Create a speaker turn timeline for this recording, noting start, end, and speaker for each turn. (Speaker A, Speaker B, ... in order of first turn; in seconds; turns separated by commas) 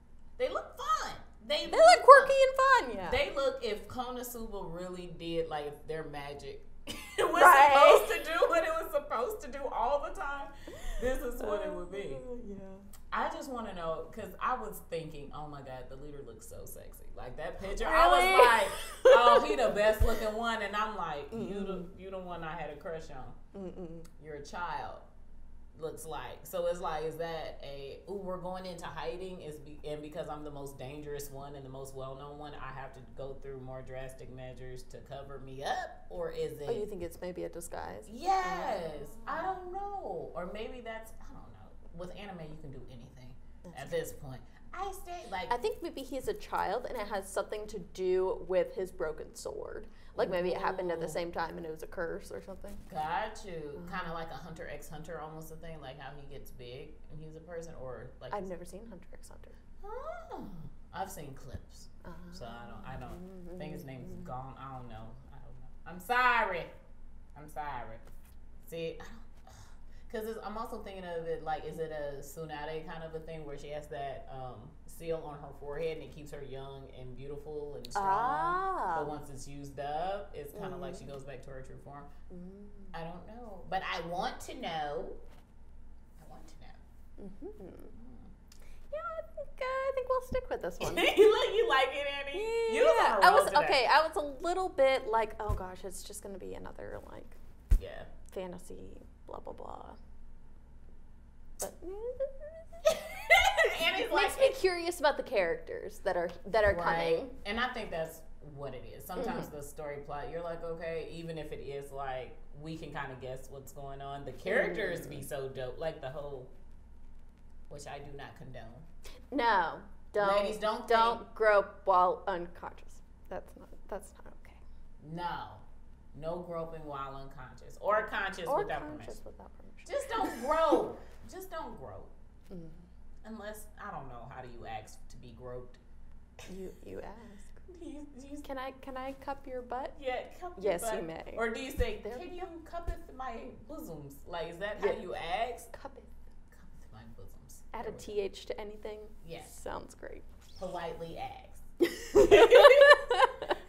Speaker A: 0.4-2.4, Speaker B: 1.6-3.3, Speaker A: 3.0-12.3, Speaker B: 7.3-8.2, Speaker B: 11.3-12.9, Speaker A: 13.1-23.4, Speaker B: 17.6-19.8, Speaker B: 21.3-21.9, Speaker B: 23.5-24.1, Speaker A: 24.2-25.1, Speaker A: 25.7-36.9, Speaker B: 36.6-39.4, Speaker A: 38.0-45.5, Speaker B: 43.7-44.1, Speaker B: 45.5-52.8, Speaker A: 50.1-51.2, Speaker A: 52.9-58.5, Speaker B: 58.3-59.5, Speaker A: 59.8-66.7, Speaker B: 62.0-64.3, Speaker A: 67.3-68.0, Speaker A: 68.6-82.1, Speaker B: 77.9-79.1, Speaker B: 80.5-81.2, Speaker B: 82.3-83.0, Speaker A: 82.9-85.2, Speaker A: 86.2-86.8, Speaker B: 87.2-87.9, Speaker A: 87.9-88.3, Speaker B: 88.9-91.3, Speaker A: 90.8-93.8, Speaker B: 92.3-97.4, Speaker A: 97.8-98.1, Speaker B: 98.3-100.0, Speaker B: 101.6-107.3, Speaker A: 102.9-104.6, Speaker A: 106.6-116.5, Speaker B: 109.2-109.5, Speaker B: 114.4-115.3, Speaker A: 117.7-118.8, Speaker B: 119.3-124.6, Speaker A: 120.2-121.3, Speaker A: 125.0-129.2, Speaker B: 128.4-130.7, Speaker A: 129.8-132.1, Speaker B: 132.5-132.8, Speaker A: 133.2-135.8, Speaker B: 136.5-137.6, Speaker A: 137.7-138.5, Speaker B: 138.4-140.0, Speaker A: 139.9-145.7, Speaker B: 140.6-142.5, Speaker B: 144.8-145.0, Speaker B: 145.7-146.2, Speaker A: 146.5-148.2, Speaker B: 147.7-150.2, Speaker A: 149.2-149.6, Speaker A: 150.6-151.6, Speaker B: 151.9-153.4, Speaker A: 152.2-153.0